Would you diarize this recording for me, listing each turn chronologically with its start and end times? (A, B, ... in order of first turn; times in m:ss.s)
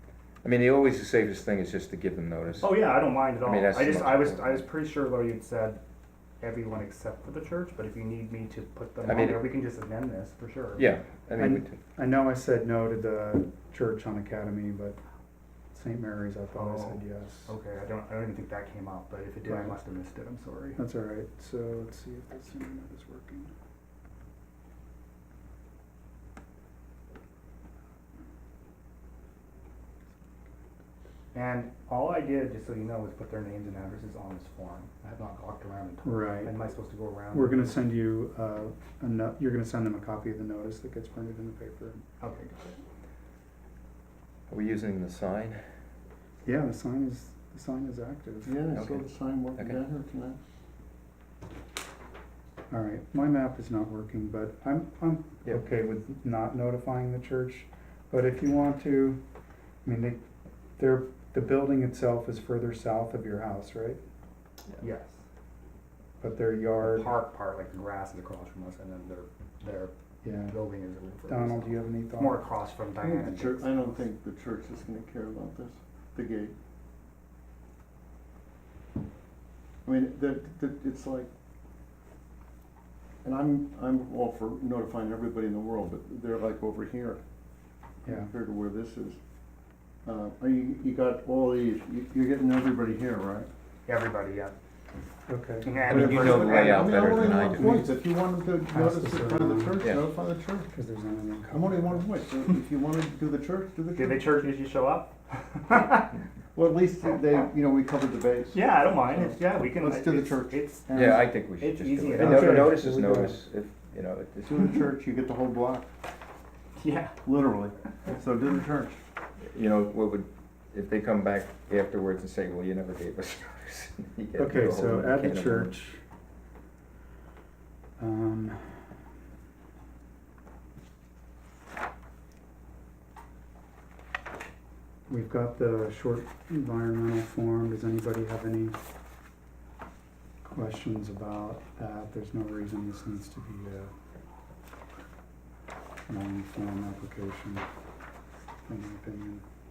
0:00.4-0:04.7 A
0:02.6-0:05.8 B
0:06.4-0:10.9 B
0:09.0-0:09.5 A
0:10.8-0:11.8 A
0:11.4-0:15.0 C
0:15.7-0:17.5 C
0:16.5-0:20.8 B
0:19.5-0:19.8 C
0:20.8-0:23.5 C
0:31.3-0:37.8 B
0:36.0-0:36.5 C
0:37.3-0:42.0 C
0:42.2-0:42.8 B
0:44.5-0:45.6 A
0:46.4-0:48.6 C
0:48.5-0:50.4 D
0:48.7-0:49.8 A
0:52.7-0:59.2 C
0:59.8-1:00.2 C
1:00.8-1:04.0 C
1:04.8-1:05.2 B
1:06.2-1:07.1 C
1:06.8-1:14.0 B
1:10.2-1:10.6 C
1:11.3-1:12.4 C
1:13.0-1:16.5 D
1:19.8-1:21.3 D
1:23.2-1:27.2 D
1:28.0-1:28.3 C
1:28.1-1:29.2 D
1:30.0-1:33.5 D
1:33.9-1:34.6 B
1:35.3-1:36.4 C
1:35.6-1:37.0 B
1:35.9-1:40.7 D
1:35.9-1:37.8 A
1:37.0-1:37.9 C
1:38.7-1:40.0 C
1:39.8-1:40.1 A
1:40.7-1:42.1 C
1:41.5-1:44.3 D
1:44.0-1:46.1 B
1:46.5-1:51.0 D
1:48.5-1:52.8 B
1:50.9-1:54.5 A
1:52.2-1:53.4 C
1:54.4-1:55.9 D
1:56.8-1:57.2 B
1:57.2-1:59.0 D
1:59.4-2:05.8 A
2:04.4-2:06.0 C
2:08.0-2:08.9 C
2:15.1-2:18.8 C
2:20.4-2:23.9 C
2:26.1-2:27.6 C
2:28.7-2:29.4 C